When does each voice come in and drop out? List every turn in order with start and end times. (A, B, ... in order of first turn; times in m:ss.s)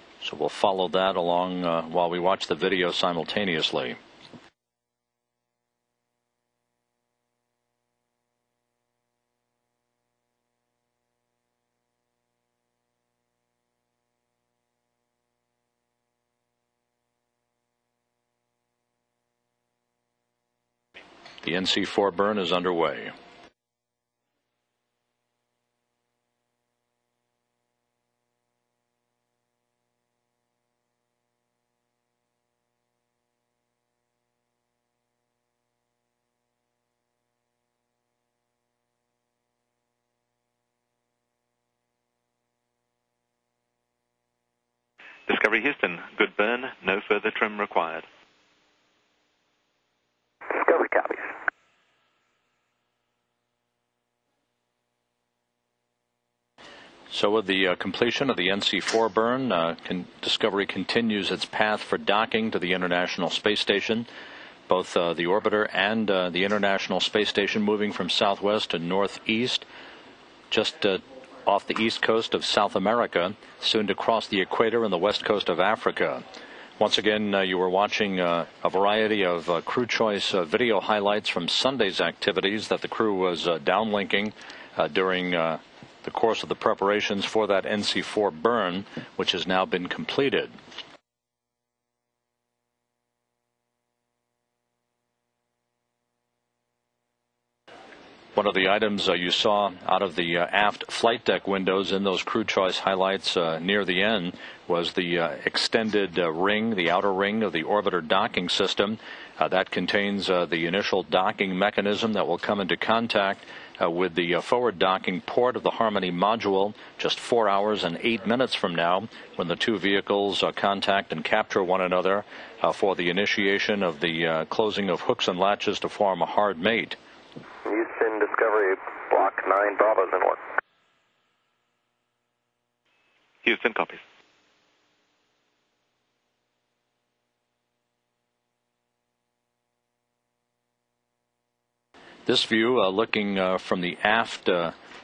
0:00.2-0:04.0 A
0:21.4-0:23.1 A
0:45.3-0:48.0 B
0:50.5-0:51.3 C
0:57.1-1:04.1 A
1:04.7-1:09.6 A
1:10.5-1:16.2 A
1:16.8-1:30.5 A
1:38.4-2:07.0 A
2:07.6-2:10.4 C
2:13.4-2:14.0 B
2:22.3-2:24.7 A